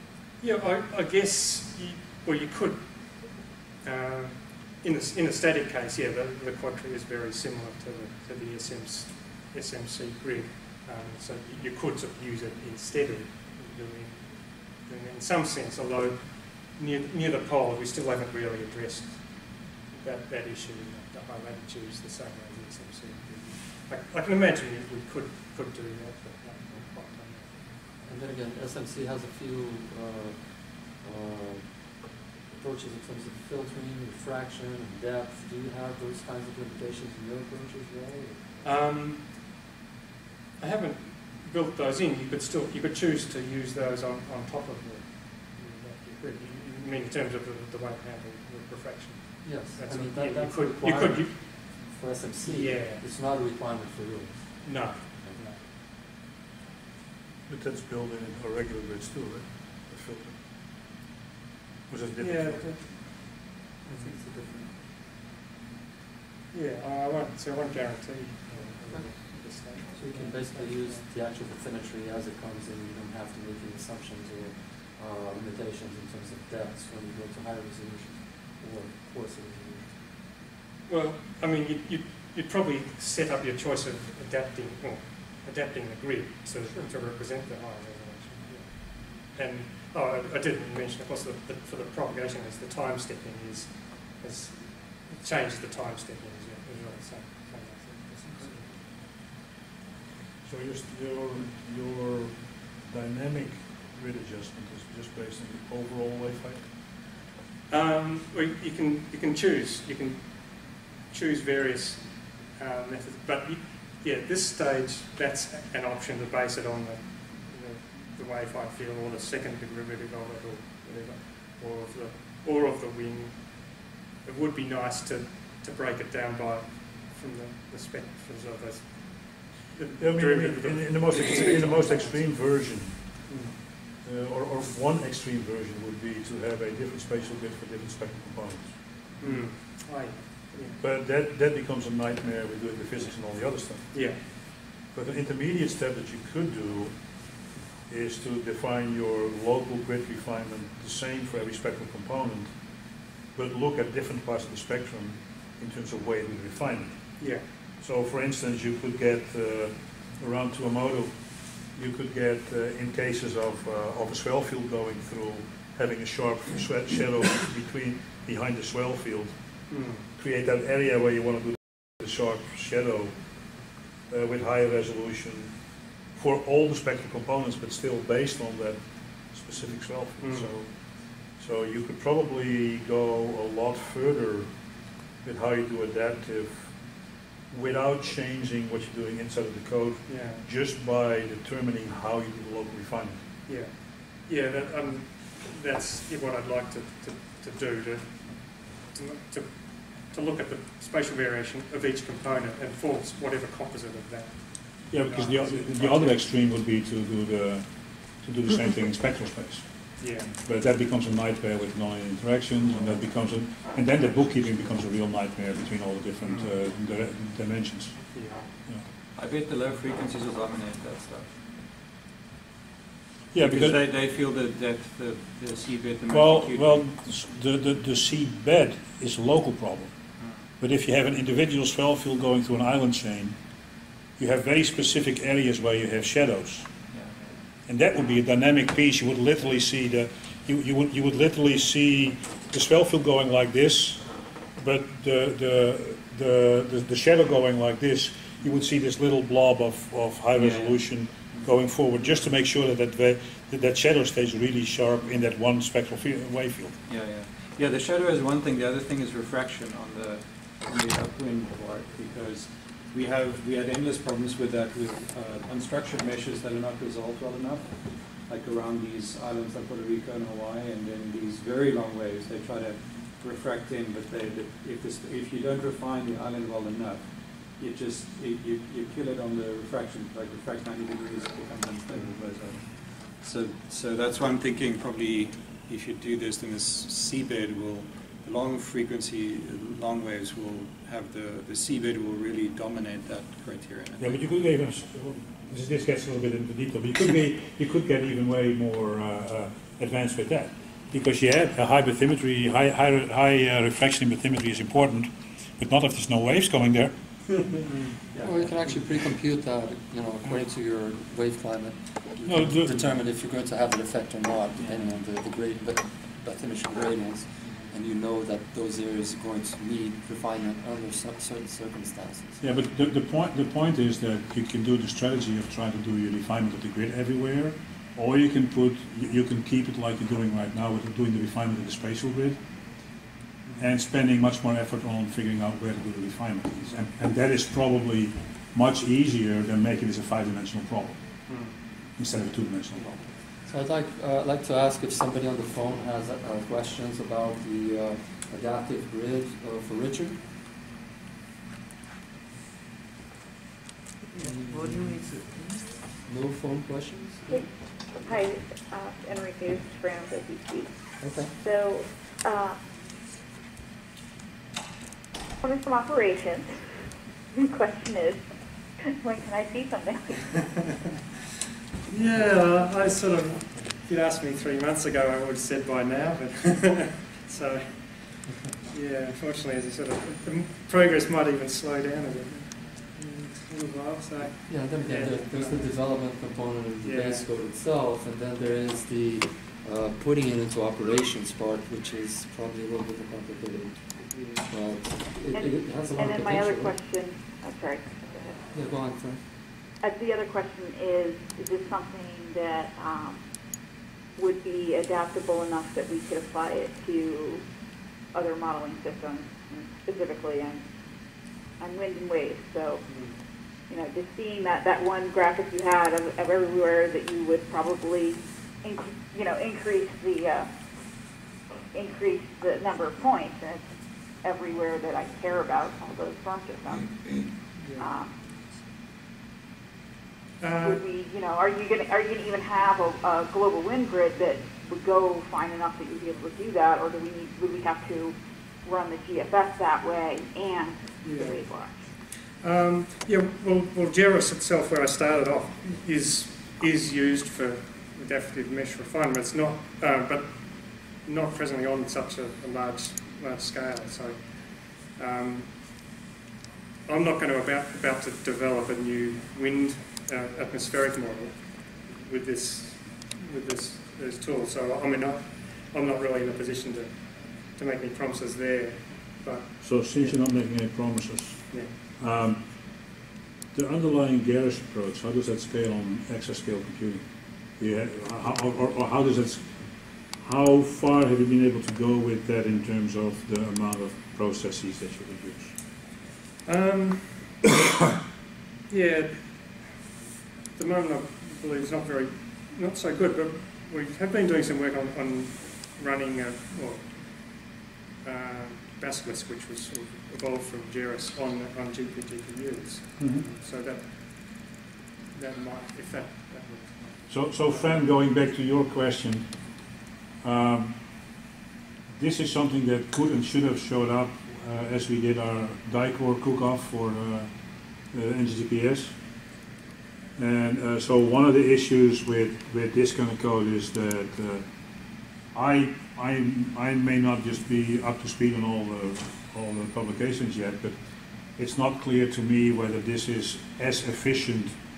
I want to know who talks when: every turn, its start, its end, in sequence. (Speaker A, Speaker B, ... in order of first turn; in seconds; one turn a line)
Speaker A: 0.4-27.7
Speaker B: 28.0-38.7
Speaker A: 38.6-39.4
Speaker A: 40.6-51.6
Speaker B: 49.4-55.5
Speaker A: 52.4-53.0
Speaker A: 54.6-55.6
Speaker C: 57.5-60.4
Speaker C: 61.9-63.0
Speaker A: 62.2-63.2
Speaker B: 63.8-64.7
Speaker A: 66.5-71.0
Speaker B: 68.5-80.0
Speaker A: 80.9-98.9
Speaker B: 86.6-86.9
Speaker C: 100.4-106.7
Speaker A: 107.7-132.6
Speaker C: 130.0-133.3
Speaker A: 133.3-133.6
Speaker C: 134.0-139.5
Speaker A: 139.2-140.8
Speaker C: 140.8-152.7
Speaker A: 143.9-144.2
Speaker C: 153.3-173.5
Speaker A: 169.7-170.1
Speaker C: 174.1-175.6
Speaker C: 176.1-184.7
Speaker A: 180.2-180.5
Speaker C: 185.2-193.3
Speaker A: 190.1-190.5
Speaker A: 193.5-206.3
Speaker C: 204.9-218.8
Speaker A: 210.0-210.3
Speaker A: 216.2-216.5
Speaker A: 218.1-218.4
Speaker D: 219.2-221.4
Speaker C: 223.3-223.8
Speaker D: 223.4-226.9
Speaker C: 226.1-229.9
Speaker D: 230.2-230.5
Speaker C: 230.6-233.4
Speaker C: 234.2-236.7
Speaker D: 236.9-237.3
Speaker C: 237.7-256.8
Speaker D: 250.3-251.5
Speaker D: 256.9-294.2
Speaker C: 294.0-307.5
Speaker D: 307.7-308.3
Speaker B: 308.1-322.4
Speaker C: 312.2-312.9
Speaker D: 314.6-314.9
Speaker C: 322.4-332.6
Speaker C: 333.6-343.1
Speaker A: 341.3-341.6
Speaker B: 342.8-350.2
Speaker B: 354.2-355.0
Speaker B: 356.0-357.9
Speaker E: 357.3-362.6
Speaker B: 361.0-361.3
Speaker E: 365.4-366.7
Speaker E: 367.3-368.4
Speaker E: 369.0-370.4
Speaker A: 371.9-385.8
Speaker B: 384.5-396.8
Speaker A: 386.8-387.3
Speaker A: 394.1-394.4
Speaker E: 395.3-398.5
Speaker B: 398.5-399.2
Speaker E: 399.8-410.7
Speaker E: 411.6-420.7
Speaker A: 412.9-413.2
Speaker E: 421.7-428.2
Speaker A: 427.6-427.9
Speaker A: 430.4-430.8
Speaker E: 430.6-441.9
Speaker A: 441.0-455.9
Speaker A: 456.9-470.2
Speaker C: 469.6-472.9
Speaker A: 471.5-471.8
Speaker C: 473.5-485.6
Speaker A: 486.4-487.4
Speaker A: 488.7-489.9
Speaker A: 490.6-504.6
Speaker C: 503.0-503.2
Speaker A: 505.1-507.9
Speaker C: 507.1-509.7
Speaker C: 510.2-511.1
Speaker C: 511.9-519.0
Speaker C: 520.2-524.5
Speaker C: 525.3-530.8
Speaker C: 531.4-534.6